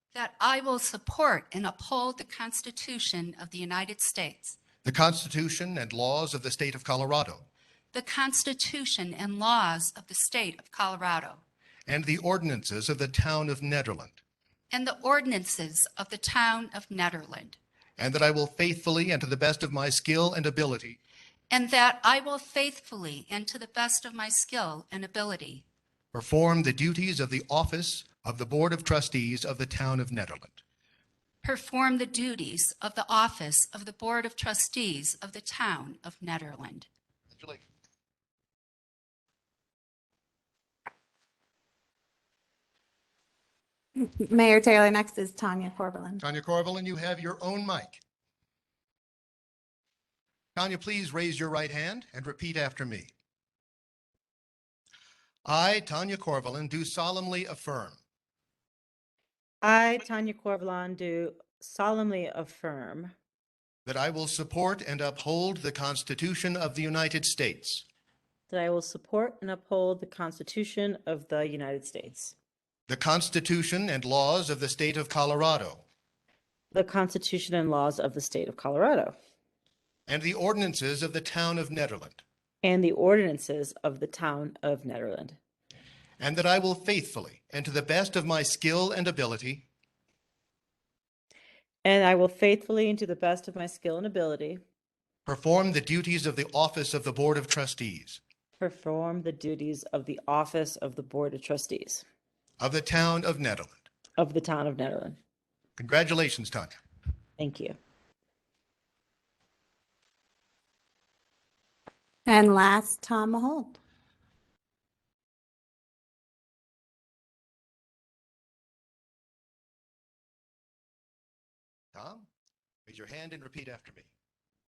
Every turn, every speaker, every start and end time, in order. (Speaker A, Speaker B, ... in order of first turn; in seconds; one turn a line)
Speaker A: 0.1-4.6
Speaker B: 4.8-7.5
Speaker A: 7.9-11.4
Speaker B: 11.9-14.2
Speaker A: 14.7-17.6
Speaker B: 18.0-21.0
Speaker A: 21.5-25.6
Speaker B: 26.1-30.6
Speaker A: 31.4-36.9
Speaker C: 44.0-46.2
Speaker B: 46.2-48.0
Speaker B: 50.5-53.1
Speaker B: 55.5-58.0
Speaker D: 59.6-63.1
Speaker B: 63.9-67.8
Speaker D: 68.5-72.3
Speaker B: 72.9-75.8
Speaker D: 76.7-79.2
Speaker B: 80.1-82.2
Speaker D: 82.6-85.4
Speaker B: 86.2-89.7
Speaker D: 91.8-94.6
Speaker B: 95.3-98.2
Speaker D: 98.6-102.0
Speaker B: 102.6-103.9
Speaker D: 104.2-105.2
Speaker B: 105.8-106.7
Speaker D: 107.4-107.8
Speaker C: 112.3-113.8
Speaker B: 122.0-122.3
Speaker B: 122.9-124.1